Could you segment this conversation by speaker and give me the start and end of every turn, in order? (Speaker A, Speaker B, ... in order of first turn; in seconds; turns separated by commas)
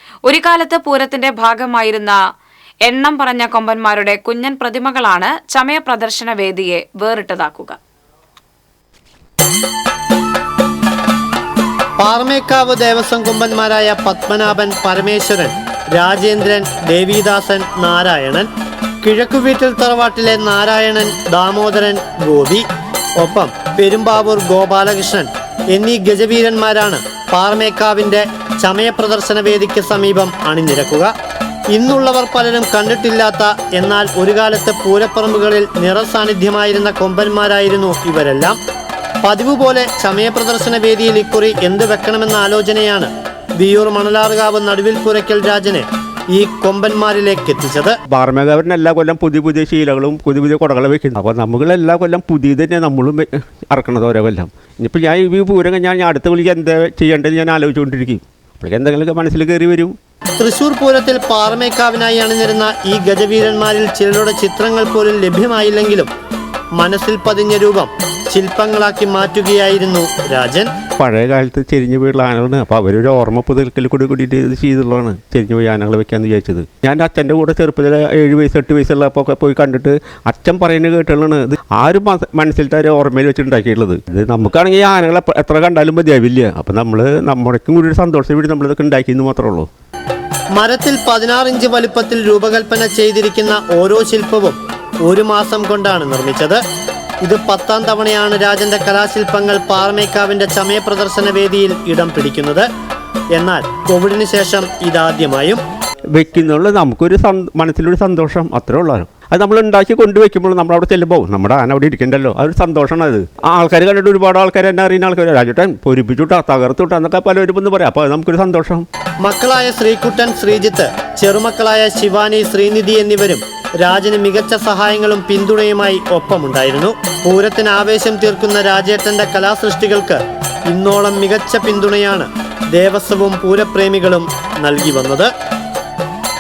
Speaker A: 0.3-2.2, Speaker A: 2.9-7.8, Speaker B: 12.0-18.5, Speaker B: 19.0-22.7, Speaker B: 23.2-31.1, Speaker B: 31.7-38.6, Speaker B: 39.2-48.0, Speaker C: 48.1-60.0, Speaker B: 60.4-66.1, Speaker B: 66.8-70.7, Speaker C: 71.0-89.7, Speaker B: 90.5-96.6, Speaker B: 97.2-102.7, Speaker B: 103.3-105.6, Speaker C: 106.1-118.9, Speaker B: 119.2-135.3